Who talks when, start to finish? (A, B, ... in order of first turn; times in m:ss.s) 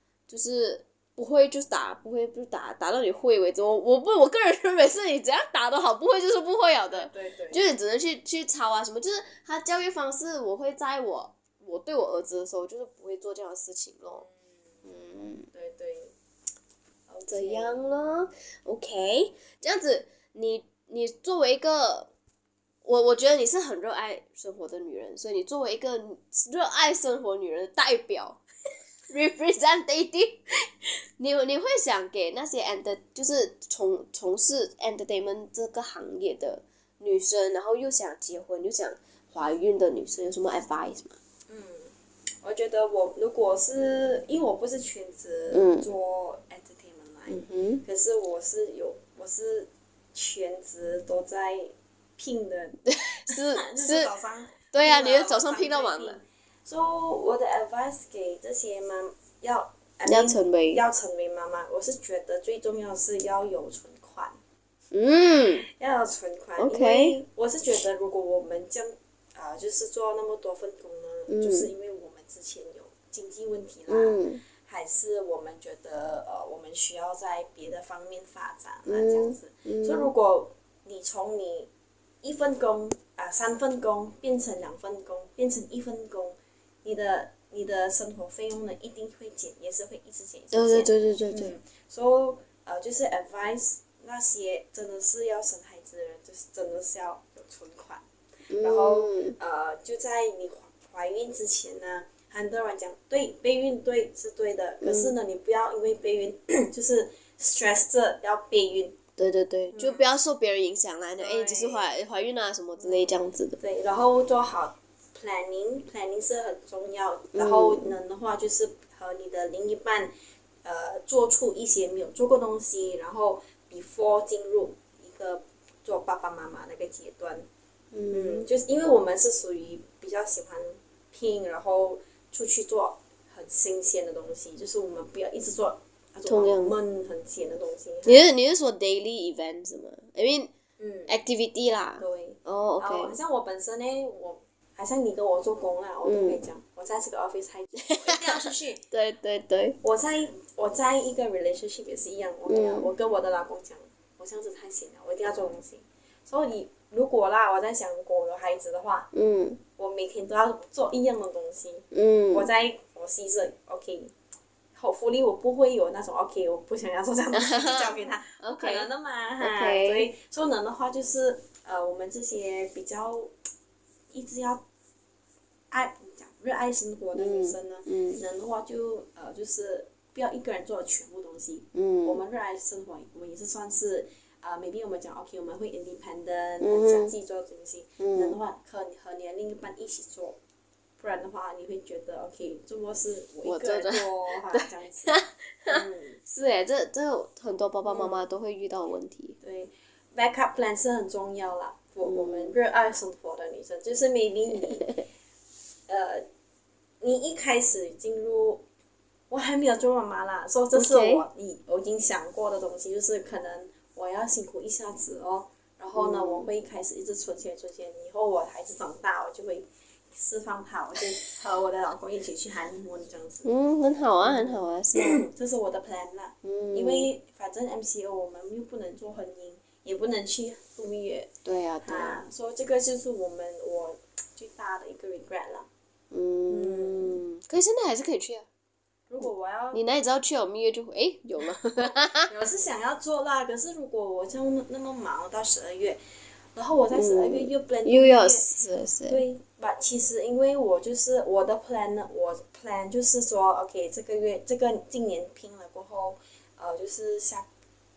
0:00.3-0:14.2 A
0:06.9-0:07.8 B
0:14.8-0:15.5 A
0:15.5-0:16.1 B
0:17.1-0:17.8 B
0:17.3-0:22.1 A
0:22.8-0:28.4 A
0:29.1-0:41.2 A
0:41.5-1:04.4 B
0:45.5-0:45.9 A
0:47.3-0:47.8 A
0:52.9-0:54.1 A
0:54.7-0:56.2 A
1:00.1-1:00.8 A
1:04.9-1:05.6 A
1:05.7-1:21.7 B
1:06.6-1:07.2 A
1:11.3-1:11.7 A
1:13.9-1:14.4 A
1:18.9-1:20.1 A
1:22.2-1:38.0 B
1:30.5-1:31.6 A
1:38.5-1:39.4 A
1:38.6-1:49.0 B
1:44.8-1:45.1 A
1:49.2-1:53.6 A
1:49.7-1:50.1 B
1:51.2-1:51.9 B
1:52.8-2:00.1 B
1:57.3-1:58.0 A
2:00.6-2:07.5 B
2:07.9-2:08.5 A
2:08.1-2:18.3 B
2:16.3-2:16.8 A
2:18.1-2:20.5 A
2:20.8-2:21.1 B
2:21.1-2:23.2 A
2:22.0-2:28.8 B
2:26.0-2:26.4 A
2:27.9-2:29.8 A
2:29.8-2:39.1 B
2:32.5-2:32.9 A
2:39.1-2:39.6 A
2:39.8-2:44.1 B
2:41.9-2:42.5 A
2:44.8-2:53.3 B
2:47.3-2:48.9 A
2:49.4-2:50.1 A
2:54.1-2:54.6 B
2:55.7-3:10.4 B
2:57.2-2:58.2 A
3:01.7-3:02.2 A
3:06.6-3:07.1 A
3:08.0-3:08.4 A
3:11.0-3:16.2 B
3:13.4-3:19.4 A
3:17.9-3:18.2 B
3:19.4-3:24.9 B
3:22.0-3:22.6 A
3:25.9-3:26.2 B
3:27.0-3:28.6 B
3:29.3-3:43.5 B
3:30.7-3:31.2 A
3:35.9-3:36.5 A
3:43.4-3:45.2 A
3:44.2-3:51.3 B
3:46.4-3:47.1 A
3:51.4-3:52.2 A
3:51.8-3:55.7 B
3:56.1-3:58.5 A
3:56.5-3:57.2 B
3:59.1-3:59.8 B
3:59.7-4:02.3 A
4:02.3-4:06.0 B
4:06.6-4:08.6 B
4:07.0-4:09.2 A
4:09.1-4:17.5 B